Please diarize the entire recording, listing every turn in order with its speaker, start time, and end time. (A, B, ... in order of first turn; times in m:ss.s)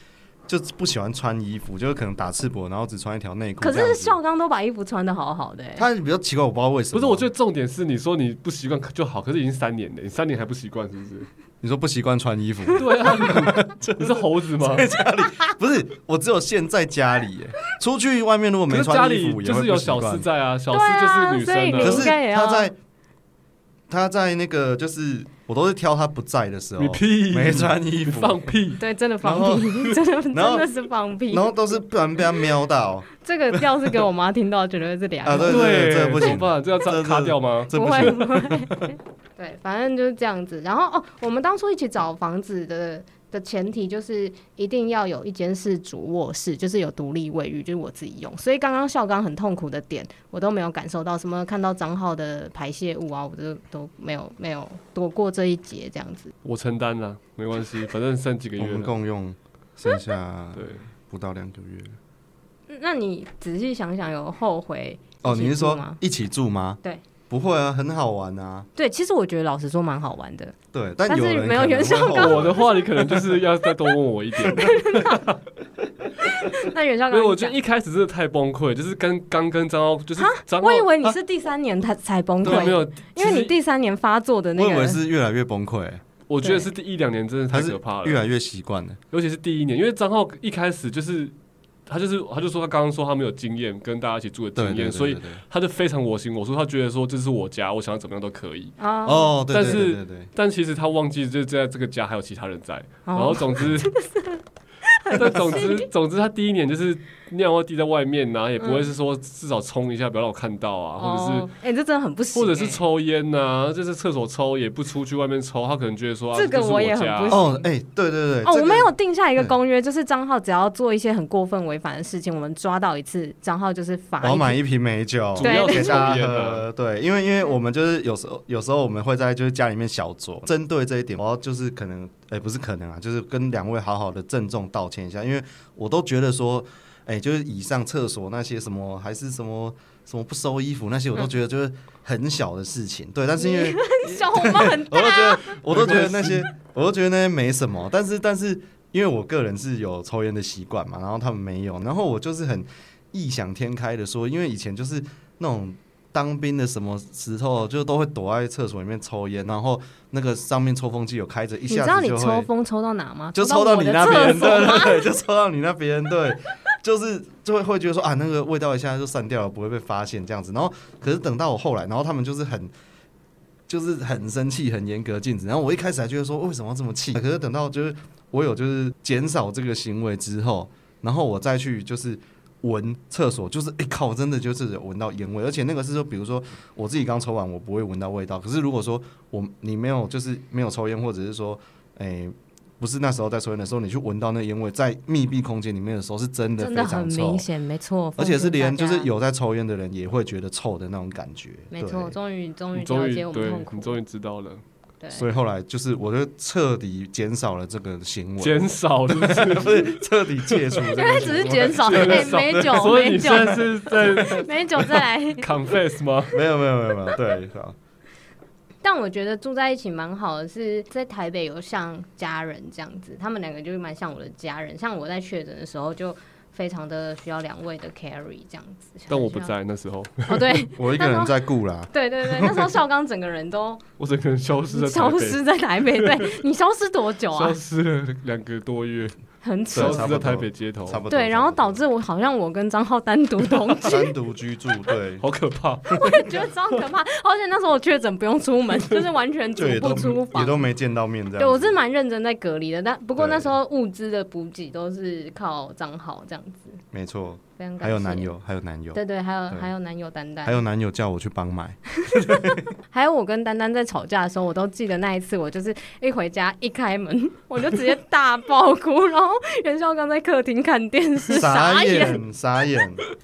0:00.5-0:04.2 A
0:03.6-0:05.9 B
0:05.8-0:07.3 A
0:06.9-0:11.3 C
0:11.6-0:20.3 A
0:12.8-0:14.9 C
0:13.1-0:13.4 B
0:18.7-0:22.1 C
0:20.7-0:22.7 B
0:21.8-0:22.8 A
0:23.9-0:28.6 A
0:26.8-0:28.8 C
0:28.8-0:31.8 B
0:29.2-0:30.7 A
0:31.3-0:33.1 A
0:33.1-0:36.4 B
0:35.2-0:38.9 A
0:35.4-0:37.7 C
0:37.7-0:56.3 B
0:56.4-0:58.9 C
0:58.6-1:02.0 A
1:00.5-1:00.9 C
1:02.7-1:06.0 B
1:05.2-1:08.7 A
1:08.8-1:10.6 B
1:10.7-1:12.7 A
1:11.1-1:12.8 B
1:12.1-1:15.4 C
1:14.5-1:15.3 B
1:16.2-1:17.6 B
1:17.1-1:20.9 C
1:20.2-1:25.0 B
1:22.4-1:23.5 C
1:22.4-1:22.8 A
1:24.6-1:26.0 A
1:26.3-1:28.2 C
1:26.4-1:26.7 B
1:27.5-1:29.0 A
1:29.1-1:31.3 C
1:31.9-1:38.7 C
1:34.6-1:35.4 A
1:38.8-1:39.7 B
1:39.0-1:40.3 A
1:39.5-1:43.9 C
1:43.1-1:45.9 B
1:45.1-1:51.5 C
1:48.6-1:48.9 B
1:51.0-1:52.8 B
1:52.3-1:57.4 C
1:56.3-1:57.7 B
1:57.3-1:59.6 A
1:58.4-2:04.6 B
2:04.2-2:42.5 A
2:05.4-2:06.7 C
2:05.4-2:06.2 B
2:23.4-2:25.7 B
2:25.7-2:26.4 C
2:41.7-2:45.2 B
2:43.4-2:52.7 A
2:53.7-3:17.5 A
3:16.6-3:19.1 B
3:18.2-3:22.2 A
3:21.7-3:24.0 B
3:22.7-3:24.6 C
3:25.0-3:25.3 B
3:25.1-3:34.4 A
3:28.4-3:29.9 C
3:30.8-3:33.6 B
3:31.4-3:36.4 C
3:34.2-3:35.6 B
3:36.3-3:37.8 A
3:38.8-3:49.5 B
3:49.1-3:50.5 C
3:50.3-3:53.8 B
3:50.7-3:52.7 A
3:54.0-3:56.3 C
3:54.7-3:57.6 B
3:57.3-3:59.2 C
3:59.4-4:00.2 B
3:59.7-4:01.0 C
3:59.7-4:01.8 A
4:01.1-4:04.1 B
4:03.8-4:05.2 A
4:05.2-4:06.0 C
4:05.9-4:10.7 B
4:09.6-4:11.8 A
4:11.4-4:16.8 B
4:13.2-4:13.6 A
4:16.9-4:19.7 A
4:17.6-4:18.3 B
4:18.9-4:20.6 B
4:20.4-4:22.6 A
4:22.1-4:32.2 B
4:31.3-4:33.0 A